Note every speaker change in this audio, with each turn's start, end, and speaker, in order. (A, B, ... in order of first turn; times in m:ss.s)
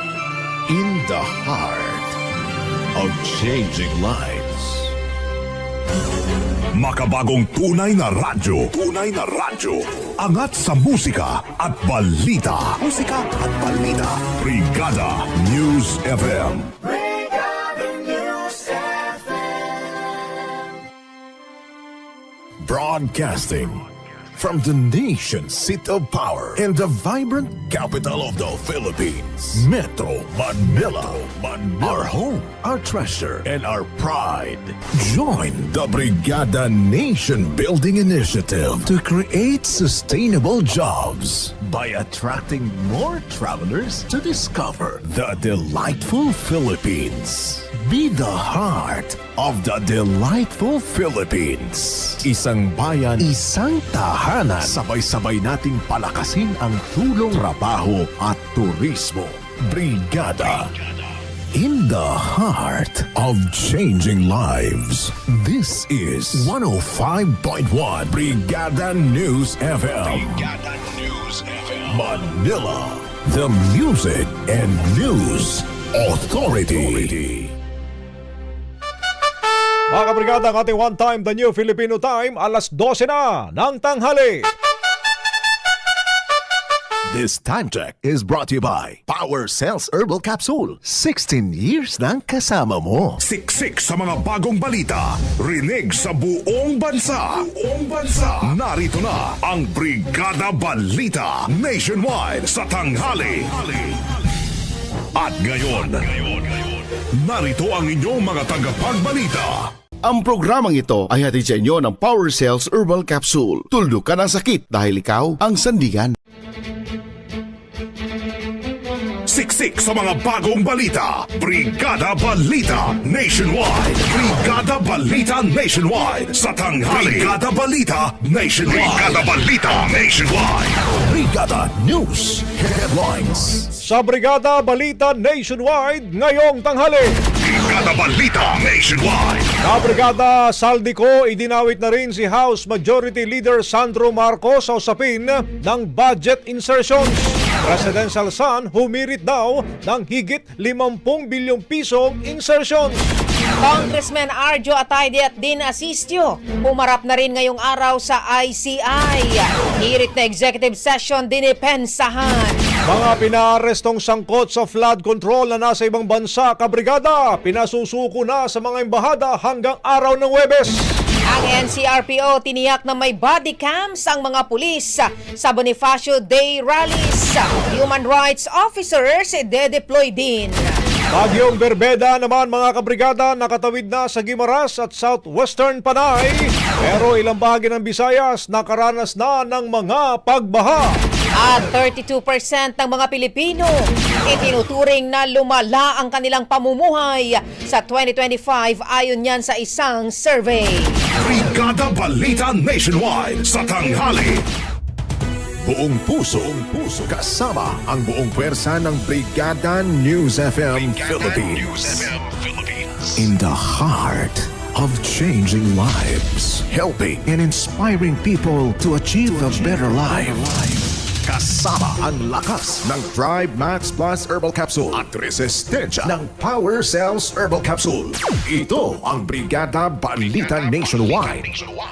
0:00.7-0:02.2 A
0:02.9-0:04.9 A
0:06.7-0:12.8 B
0:12.8-0:14.2 A
0:14.2-0:16.7 B
0:15.4-0:15.7 A
0:22.6-0:23.8 A
0:24.4-1:00.7 A
1:01.5-1:17.5 A
1:19.9-1:24.5 C
1:27.1-1:33.2 A
1:33.2-1:44.0 B
1:45.1-1:46.4 B
1:47.2-1:49.7 B
1:50.0-1:56.1 D
1:59.3-2:10.8 B
2:11.0-2:13.7 A
2:13.8-2:17.1 C
2:17.4-2:19.5 B
2:19.6-2:33.1 C
2:33.6-2:42.6 E
2:42.9-2:50.8 C
2:51.3-3:00.8 E
3:01.1-3:11.0 C
3:11.4-3:21.0 E
3:21.2-3:24.4 B
3:25.6-3:51.6 A